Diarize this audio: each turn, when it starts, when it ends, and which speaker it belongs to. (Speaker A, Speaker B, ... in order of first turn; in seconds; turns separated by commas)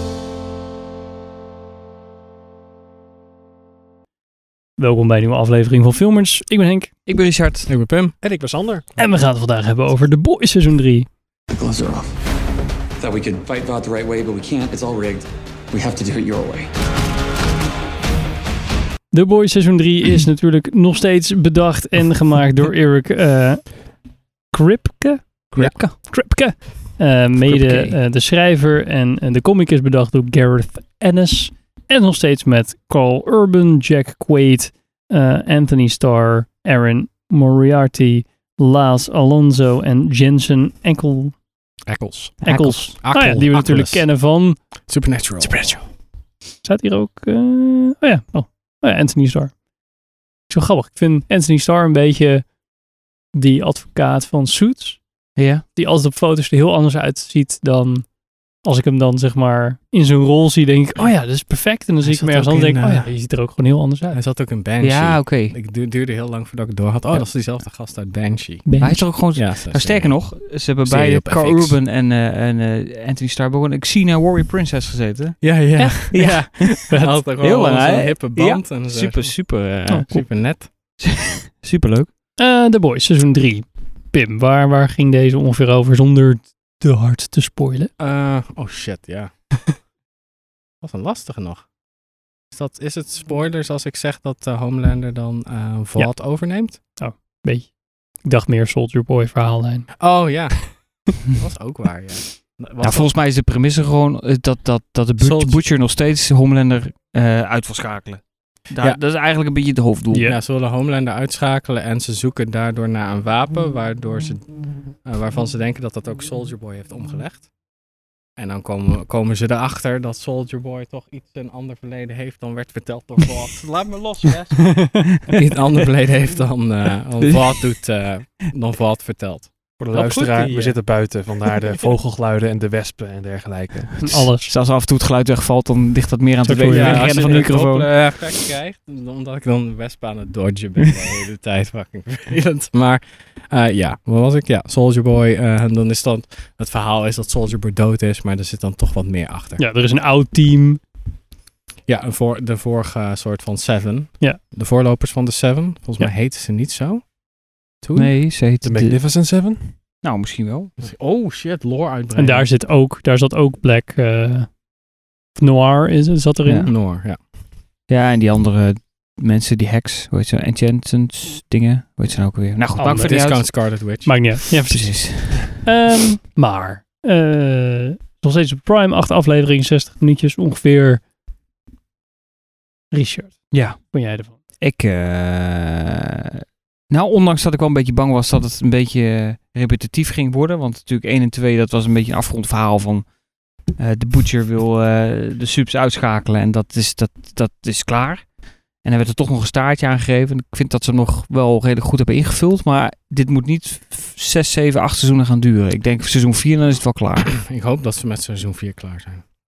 Speaker A: 4.8-6.9, Speaker B: 7.1-7.7, Speaker C: 7.7-8.2, Speaker D: 8.2-8.9, Speaker A: 9.0-11.1, Speaker E: 11.5-12.1, Speaker E: 13.0-16.7, Speaker A: 19.1-41.4, Speaker B: 25.5-26.0, Speaker B: 27.4-27.9, Speaker C: 41.9-45.8, Speaker A: 42.4-46.0, Speaker B: 42.4-42.9, Speaker A: 46.6-49.5, Speaker A: 50.5-52.5, Speaker A: 53.3-64.2, Speaker B: 55.4-55.6, Speaker C: 62.0-63.1, Speaker C: 64.1-71.8, Speaker B: 64.8-65.5, Speaker A: 68.6-69.0, Speaker B: 68.8-79.8, Speaker C: 75.4-80.7, Speaker A: 75.8-76.0, Speaker A: 76.6-77.1, Speaker A: 79.9-80.3, Speaker B: 81.0-82.1, Speaker A: 82.4-87.9, Speaker C: 88.0-89.8, Speaker C: 90.8-91.7, Speaker C: 92.5-96.8, Speaker A: 96.7-100.0, Speaker C: 100.0-103.1, Speaker B: 102.8-110.3, Speaker C: 105.2-105.7, Speaker C: 110.2-117.5, Speaker C: 118.3-130.8, Speaker B: 127.2-127.8, Speaker D: 129.8-134.2, Speaker A: 134.0-134.5, Speaker B: 134.3-137.9, Speaker A: 136.4-137.3, Speaker C: 136.7-149.6, Speaker A: 149.6-150.8, Speaker C: 151.9-157.1, Speaker C: 157.8-158.3, Speaker B: 157.9-159.0, Speaker D: 158.6-159.7, Speaker B: 160.0-160.7, Speaker C: 160.8-162.5, Speaker A: 162.2-164.6, Speaker A: 165.4-166.7, Speaker B: 166.4-166.7, Speaker C: 166.7-167.2, Speaker B: 167.9-173.7, Speaker C: 172.8-174.5, Speaker A: 174.1-181.0, Speaker B: 174.7-175.7, Speaker A: 182.9-184.3, Speaker B: 183.5-184.0, Speaker B: 184.6-193.1, Speaker B: 193.7-198.3, Speaker B: 198.8-207.4, Speaker C: 207.5-209.2